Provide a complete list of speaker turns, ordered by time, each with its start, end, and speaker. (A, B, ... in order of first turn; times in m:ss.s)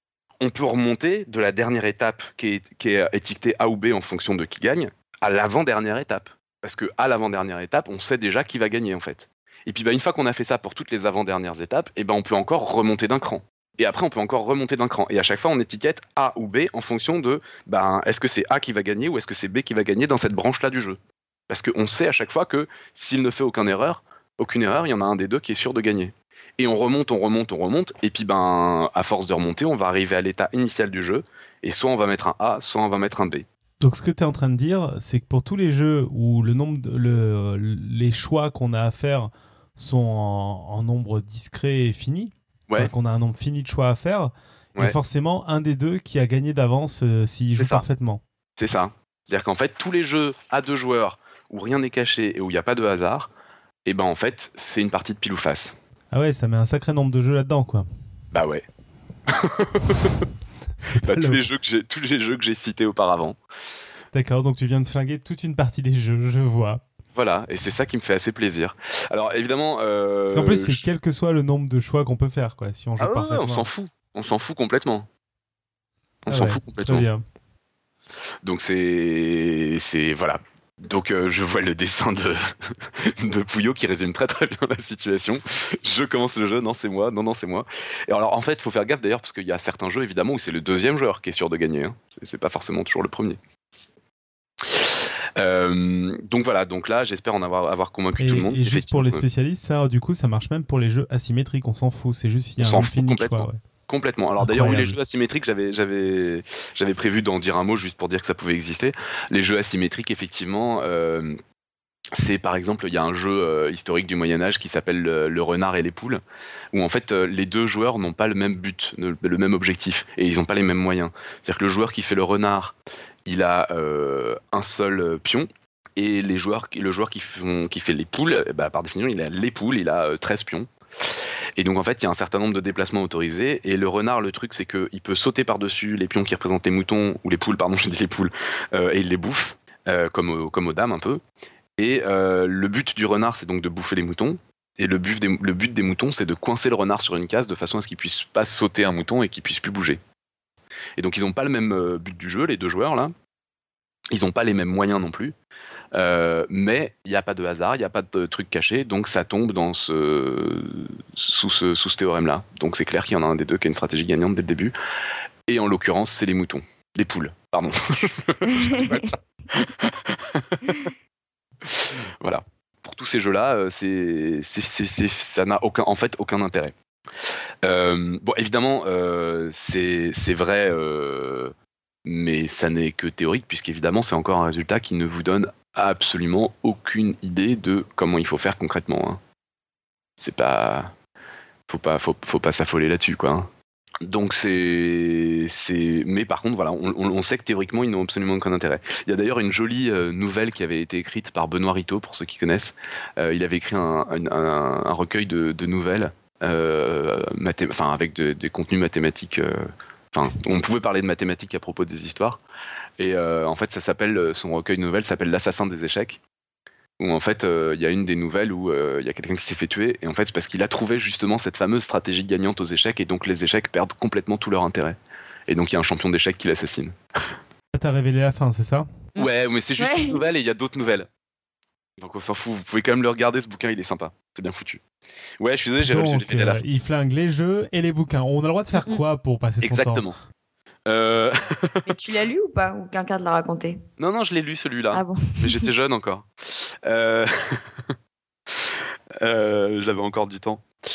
0:00.4-0:21.0 A
0:21.5-0:33.4 A
0:33.8-0:48.2 B
0:47.6-0:47.8 A
0:48.6-0:53.3 A
0:53.8-0:55.8 A
0:56.1-0:57.9 B
0:58.3-0:58.6 A
0:59.3-1:00.2 A
1:00.8-1:01.4 B
1:01.1-1:03.4 A
1:04.1-1:06.8 B
1:07.2-1:10.9 A
1:10.3-1:13.7 B
1:13.0-1:15.1 A
1:16.3-1:17.1 A
1:16.3-1:17.2 B
1:18.4-1:22.4 A
1:23.0-1:33.4 A
1:34.7-1:39.2 A
1:38.2-1:43.6 B
1:42.6-1:51.4 A
1:44.4-1:45.0 B
1:52.1-1:56.2 A
1:56.7-2:02.8 A
2:03.3-2:10.7 A
2:11.6-2:21.2 A
2:21.8-2:30.0 A
2:31.0-2:33.1 A
2:34.1-2:35.4 A
2:36.0-2:44.7 A
2:45.5-2:50.9 A
2:51.6-2:56.8 A
2:57.6-3:01.5 A
3:02.0-3:09.2 A
3:10.2-3:10.9 A
3:11.7-3:13.5 A
3:14.0-3:32.4 A
3:33.0-3:36.2 A
3:37.0-3:45.0 A
3:45.5-3:47.0 A
3:47.7-3:48.9 B
3:49.2-3:50.2 C
3:49.2-3:51.1 A
3:52.0-3:54.8 A
3:55.4-3:56.6 A
3:55.8-4:00.1 B
3:59.6-4:00.2 A
4:00.9-4:01.8 A
4:01.9-4:03.8 C
4:04.0-4:07.9 A
4:04.9-4:05.7 C
4:08.6-4:10.6 A